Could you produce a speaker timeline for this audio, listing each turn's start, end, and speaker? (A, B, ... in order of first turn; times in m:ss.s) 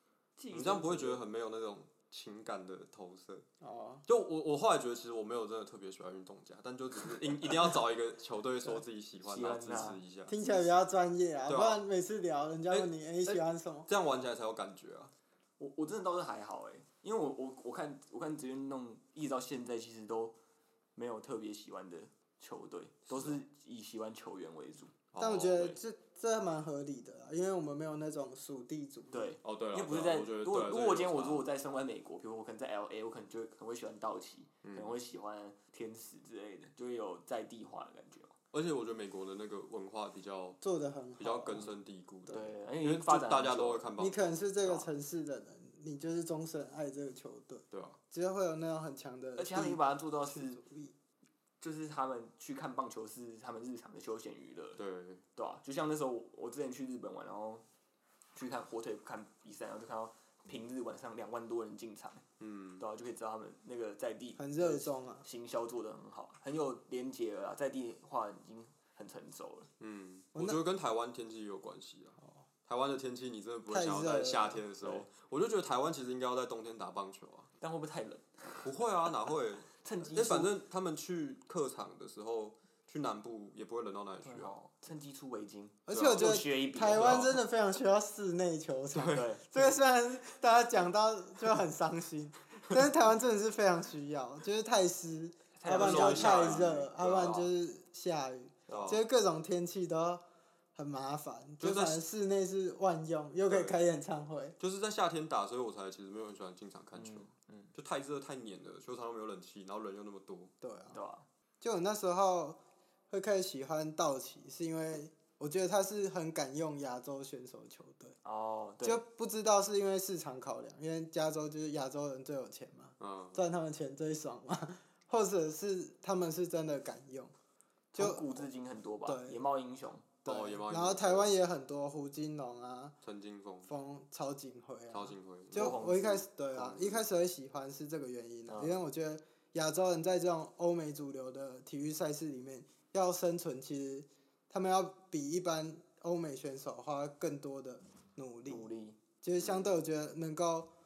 0:00.4-0:01.2 A
0:00.5-0:03.4 B
0:03.6-0:04.0 C
0:04.0-0:10.4 B
0:09.2-0:10.0 A
0:10.3-0:13.9 C
0:11.5-0:11.8 B
0:12.7-0:15.1 B
0:15.6-0:20.4 A
0:21.0-0:24.9 A
0:23.1-0:23.4 B
0:25.1-0:25.8 B
0:25.2-0:29.4 C
0:29.1-0:38.3 A
0:29.4-0:31.5 B
0:34.6-0:34.9 B
0:38.5-0:40.6 B
0:40.6-0:41.7 C
0:41.2-0:44.9 B
0:42.3-0:43.9 A
0:44.0-0:50.9 C
0:47.7-0:48.0 B
0:49.4-0:50.6 A
0:51.6-0:54.8 A
0:54.8-0:55.2 B
0:55.4-0:57.6 A
0:58.3-1:02.2 A
1:02.4-1:02.8 B
1:02.8-1:09.7 A
1:04.4-1:05.2 C
1:09.8-1:17.5 B
1:10.3-1:10.6 C
1:13.7-1:14.6 C
1:17.6-1:18.6 A
1:18.6-1:24.5 B
1:19.8-1:20.5 A
1:24.2-1:27.4 A
1:25.9-1:40.2 C
1:25.9-1:27.4 B
1:28.9-1:29.6 B
1:29.1-1:29.4 A
1:35.6-1:36.8 A
1:35.6-1:37.5 B
1:38.7-1:39.0 A
1:38.7-1:39.0 B
1:40.7-1:44.6 C
1:41.6-1:42.0 B
1:43.5-1:43.8 B
1:44.6-1:50.5 B
1:46.9-1:47.7 A
1:50.6-1:51.0 C
1:50.9-1:51.2 A
1:51.6-1:58.2 C
1:58.2-1:59.0 A
1:58.8-2:07.3 C
2:03.0-2:03.4 B
2:07.9-2:08.5 C
2:07.9-2:10.1 A
2:09.0-2:09.4 C
2:10.2-2:11.3 B
2:10.2-2:13.0 C
2:13.0-2:13.7 B
2:13.6-2:30.7 C
2:14.9-2:15.8 B
2:15.5-2:16.3 A
2:16.5-2:17.0 B
2:18.5-2:18.8 A
2:28.5-2:29.0 A
2:29.4-2:29.8 B